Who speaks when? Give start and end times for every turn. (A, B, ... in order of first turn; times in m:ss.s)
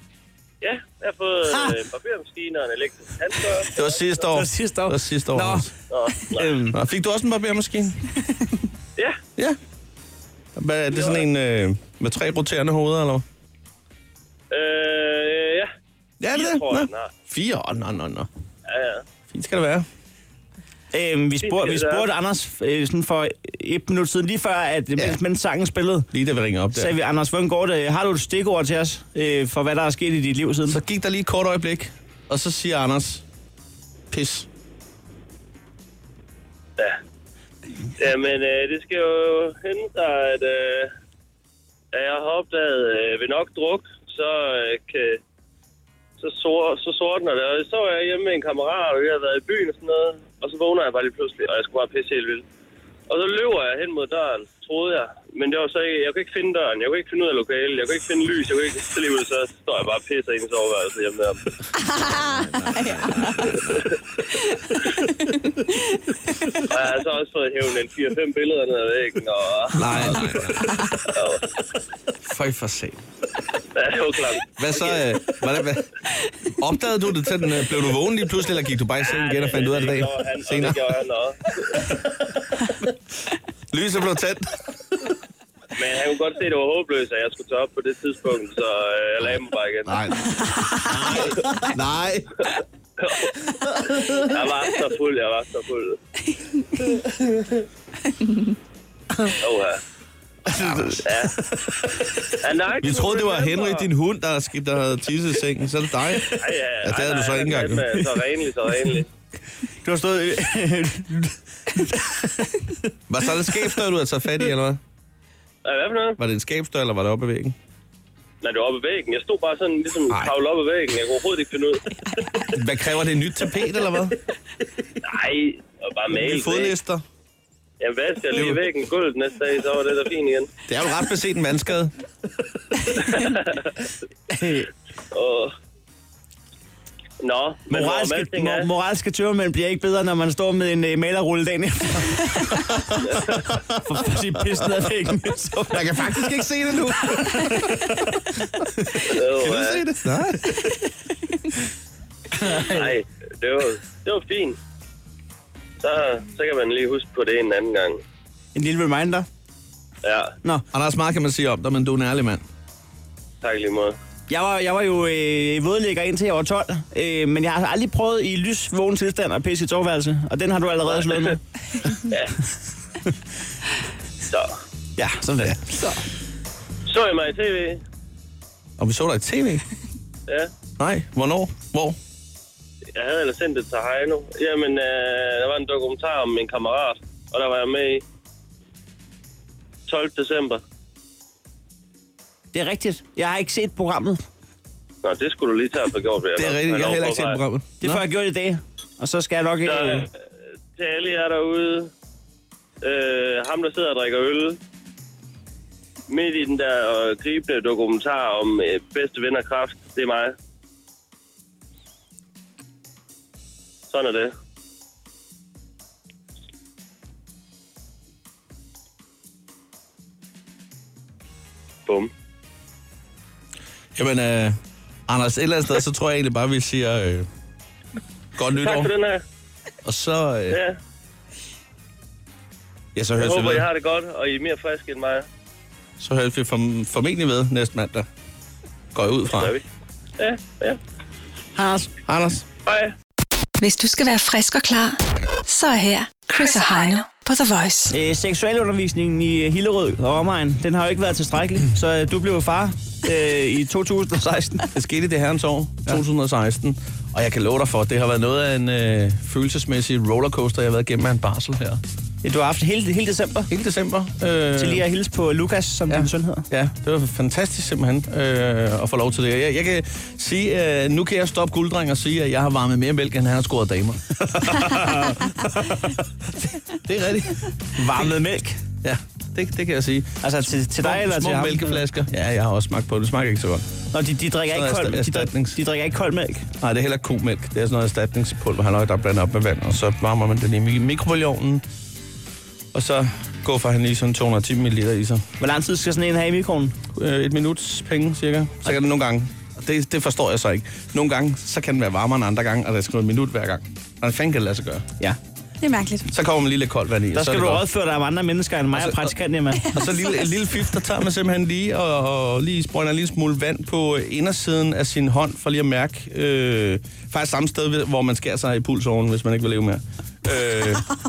0:00.6-0:03.8 A
0:01.5-0:01.8 B
0:03.7-0:05.7 C
0:04.3-0:06.8 B
0:05.9-0:06.5 A
0:06.7-0:08.1 C
0:10.5-0:13.2 C
0:10.9-0:11.2 A
0:14.5-0:15.7 A
0:16.2-0:18.3 C
0:16.3-0:17.1 A
0:18.7-0:19.0 A
0:19.3-0:19.9 C
0:20.9-0:26.1 B
0:21.4-0:22.1 A
0:26.1-0:26.9 C
0:26.7-0:30.8 B
0:30.7-0:33.2 C
0:34.1-0:34.5 C
0:38.0-0:40.9 A
0:41.9-0:45.2 A
0:46.2-0:52.4 A
0:53.1-1:01.4 A
1:01.8-1:03.6 D
1:02.3-1:03.8 C
1:03.5-1:04.0 A
1:04.4-1:06.0 D
1:06.6-1:10.4 A
1:09.7-1:11.0 C
1:11.1-1:11.6 A
1:12.2-1:13.0 C
1:13.7-1:15.2 A
1:14.6-1:15.9 C
1:16.4-1:20.8 C
1:19.0-1:22.0 A
1:23.7-1:24.6 C
1:25.7-1:30.2 A
1:29.8-1:32.5 C
1:30.9-1:31.5 B
1:32.4-1:36.0 A
1:33.9-1:34.2 C
1:38.1-1:38.5 D
1:39.4-1:39.8 A
1:40.5-1:41.0 B
1:40.5-1:42.2 C
1:41.0-1:41.4 A
1:42.4-1:43.9 A
1:42.8-1:48.0 C
1:46.2-1:49.1 A
1:49.8-1:52.9 B
1:53.1-1:54.8 C
1:55.6-1:56.2 A
1:56.2-1:57.6 C
1:58.4-2:02.3 A
2:02.5-2:04.2 C
2:05.0-2:06.7 A
2:06.1-2:07.0 C
2:07.8-2:10.5 A
2:08.3-2:08.6 C
2:10.7-2:11.9 C
2:13.0-2:13.8 A
2:14.3-2:14.7 B
2:15.1-2:15.5 A
2:17.2-2:18.7 A
2:17.7-2:26.4 B
2:22.6-2:23.8 C
2:25.7-2:30.9 C
2:27.1-2:27.8 B
2:29.0-2:29.8 A
2:32.4-2:34.6 A
2:35.8-2:38.0 A
2:38.5-2:39.3 B
2:40.0-2:40.4 A
2:40.7-2:42.4 C
2:43.4-2:44.0 A
2:44.3-2:51.4 B
2:51.0-2:51.3 A
2:52.1-2:52.4 A
2:54.3-2:54.6 A
2:55.0-2:55.8 B
2:56.9-2:57.8 A
2:58.8-2:59.6 C
3:00.8-3:02.0 C
3:02.9-3:08.0 A
3:09.9-3:10.6 A
3:12.5-3:14.2 B
3:15.0-3:17.4 A
3:16.3-3:18.0 C
3:17.8-3:20.1 B
3:19.6-3:20.1 A
3:20.8-3:21.9 A
3:22.8-3:24.6 A
3:26.1-3:30.3 A
3:33.9-3:34.3 A
3:43.9-3:47.3 C
3:48.4-3:48.9 C
3:48.6-3:49.2 A
3:49.8-3:50.6 C
3:50.5-3:50.8 A
3:52.9-3:53.7 C
3:53.2-3:55.2 A
3:56.0-3:58.1 C
3:58.9-3:59.5 C
3:59.2-3:59.6 A
4:00.2-4:00.8 A
4:01.6-4:01.9 B
4:02.0-4:02.4 C
4:02.6-4:02.9 A
4:03.6-4:07.9 E
4:07.9-4:14.7 B
4:14.7-4:21.8 C
4:22.2-4:23.5 B
4:23.5-4:24.8 C
4:24.6-4:26.5 B
4:25.9-4:35.1 C
4:34.4-4:35.9 B
4:36.6-4:38.1 C
4:37.7-4:38.6 B
4:38.8-4:43.7 C
4:40.2-4:41.8 B
4:43.9-4:46.5 B
4:44.5-4:45.6 C
4:46.6-4:51.6 C
4:52.7-4:55.2 C
4:55.4-4:56.8 B
4:56.9-5:04.9 C
5:05.6-5:06.1 D
5:06.1-5:07.6 C
5:07.1-5:09.8 B
5:08.7-5:09.1 C
5:09.7-5:20.9 C